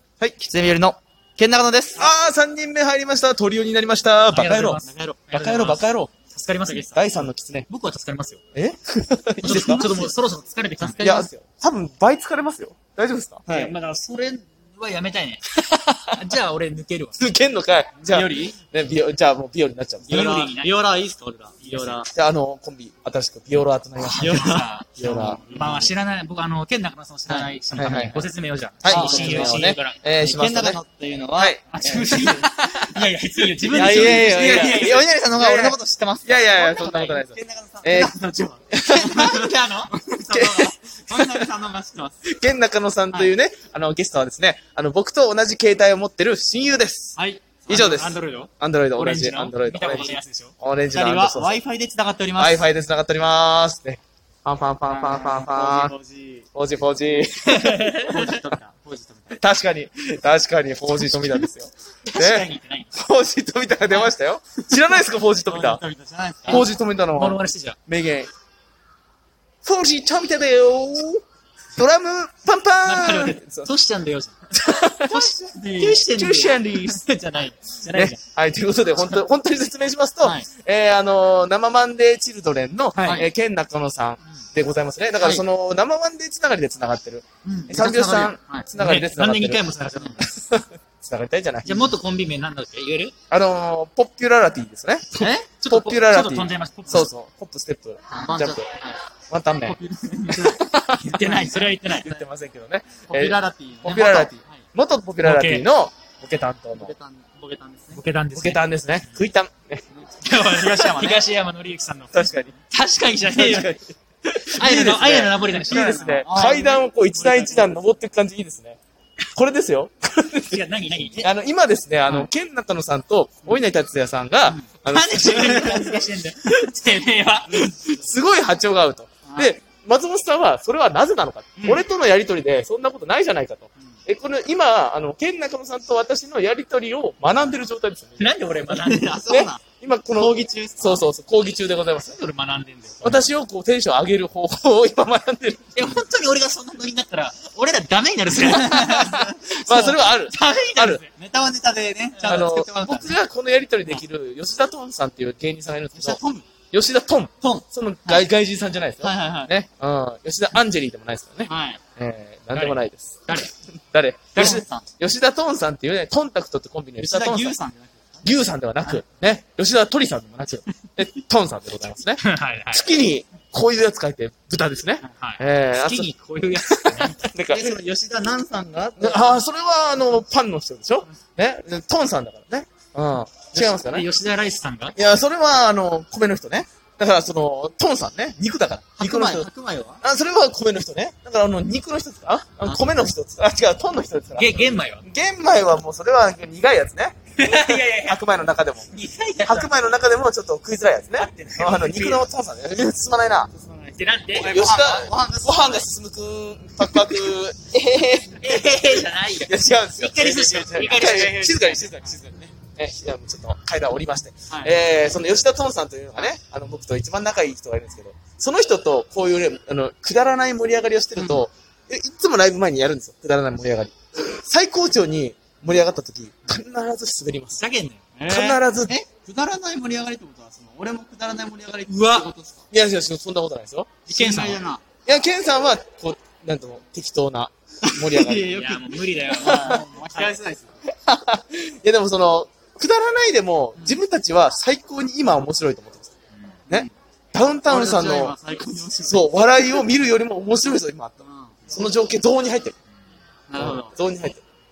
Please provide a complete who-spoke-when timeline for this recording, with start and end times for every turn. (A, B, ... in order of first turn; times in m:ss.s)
0:00.4-0:02.1 A
0:02.0-0:06.1 B
0:04.3-0:07.0 C
0:04.8-0:05.2 A
0:06.7-0:07.7 B
0:07.7-0:08.4 C
0:08.5-0:10.1 B
0:09.4-0:11.2 C
0:09.5-0:10.1 A
0:10.8-0:11.3 A
0:11.0-0:13.7 B
0:13.5-0:15.5 C
0:15.6-0:16.2 B
0:16.1-0:17.2 C
0:17.2-0:20.2 B
0:18.0-0:18.6 A
0:20.1-0:22.1 A
0:20.1-0:20.7 C
0:21.6-0:22.0 C
0:22.1-0:25.5 B
0:24.0-0:30.0 C
0:24.2-0:24.7 A
0:25.5-0:25.9 A
0:27.3-0:27.9 A
0:27.8-0:28.3 B
0:28.8-0:30.8 B
0:28.9-0:29.6 A
0:30.2-0:32.4 A
0:31.4-0:32.9 B
0:31.7-0:35.0 C
0:33.7-0:42.2 A
0:33.7-0:38.1 B
0:38.7-0:39.4 B
0:39.0-0:39.9 C
0:40.3-0:41.5 B
0:42.2-0:47.2 B
0:47.2-0:48.1 A
0:47.7-0:50.5 C
0:47.7-0:51.6 B
0:50.9-0:52.6 A
0:52.4-0:56.0 B
0:54.9-0:56.5 A
0:56.5-0:57.9 B
0:57.1-0:59.4 A
0:57.5-0:58.4 C
0:59.3-1:05.8 B
1:02.1-1:02.9 C
1:05.5-1:06.7 A
1:06.5-1:07.8 C
1:06.5-1:08.3 B
1:09.6-1:11.2 B
1:11.8-1:13.7 B
1:12.8-1:18.2 C
1:14.6-1:15.3 B
1:15.1-1:16.0 A
1:16.0-1:17.0 B
1:17.9-1:32.0 B
1:27.4-1:27.8 C
1:27.6-1:28.7 A
1:28.7-1:30.3 C
1:31.6-1:33.2 C
1:33.3-1:38.7 B
1:35.2-1:35.5 A
1:35.6-1:37.1 C
1:38.1-1:38.7 A
1:39.3-1:39.8 B
1:39.7-1:40.6 A
1:40.3-1:42.2 C
1:40.4-1:46.9 B
1:41.1-1:41.6 A
1:43.1-1:44.7 A
1:45.2-1:45.6 C
1:46.7-1:48.0 A
1:47.9-1:48.6 C
1:48.3-1:49.8 B
1:49.9-1:51.2 A
1:50.2-1:53.7 C
1:52.1-1:52.6 B
1:53.2-1:58.8 B
1:54.5-1:56.1 C
1:55.6-1:57.7 A
1:59.3-2:00.6 B
2:00.4-2:01.3 C
2:01.2-2:06.0 B
2:04.8-2:07.9 C
2:07.5-2:18.4 B
2:09.3-2:09.6 A
2:11.6-2:11.8 A
2:18.2-2:19.3 C
2:18.7-2:19.6 A
2:19.3-2:22.2 B
2:20.2-2:21.0 A
2:22.0-2:23.3 C
2:23.0-2:26.0 B
2:25.8-2:31.1 C
2:28.4-2:31.0 B
2:28.7-2:29.6 A
2:31.2-2:33.1 A
2:32.3-2:36.2 B
2:35.9-2:36.5 A
2:36.7-2:43.4 B
2:37.4-2:38.3 A
2:39.0-2:39.5 A
2:41.5-2:41.8 A
2:42.6-2:43.5 C
2:43.9-2:47.6 B
2:44.3-2:44.9 A
2:47.0-2:48.3 A
2:48.2-2:57.8 B
2:52.2-2:52.8 C
2:55.0-2:57.3 C
2:57.5-2:59.4 A
2:59.0-3:04.1 B
3:03.5-3:05.0 C
3:05.0-3:09.5 B
3:09.0-3:10.0 A
3:10.0-3:18.9 B
3:12.6-3:12.9 A
3:14.4-3:15.0 C
3:17.4-3:18.2 C
3:18.9-3:19.7 C
3:19.4-3:23.5 B
3:21.2-3:22.2 C
3:23.5-3:25.9 A
3:24.0-3:24.6 C
3:24.3-3:28.8 B
3:28.4-3:31.9 C
3:29.4-3:47.6 B
3:41.2-3:41.4 A
3:47.5-3:48.0 C
3:48.2-3:52.7 A
3:48.3-3:48.9 B
3:51.9-3:52.3 C
3:52.7-3:54.1 B
3:54.1-3:54.8 A
3:54.1-3:54.6 C
3:55.1-3:58.6 B
3:57.8-4:00.8 A
3:58.4-4:00.4 C
3:59.4-3:59.8 B
4:00.9-4:06.1 B
4:06.7-4:08.4 B
4:07.7-4:09.8 A
4:09.0-4:12.8 B
4:11.2-4:11.8 A
4:13.5-4:13.9 A
4:13.6-4:14.4 B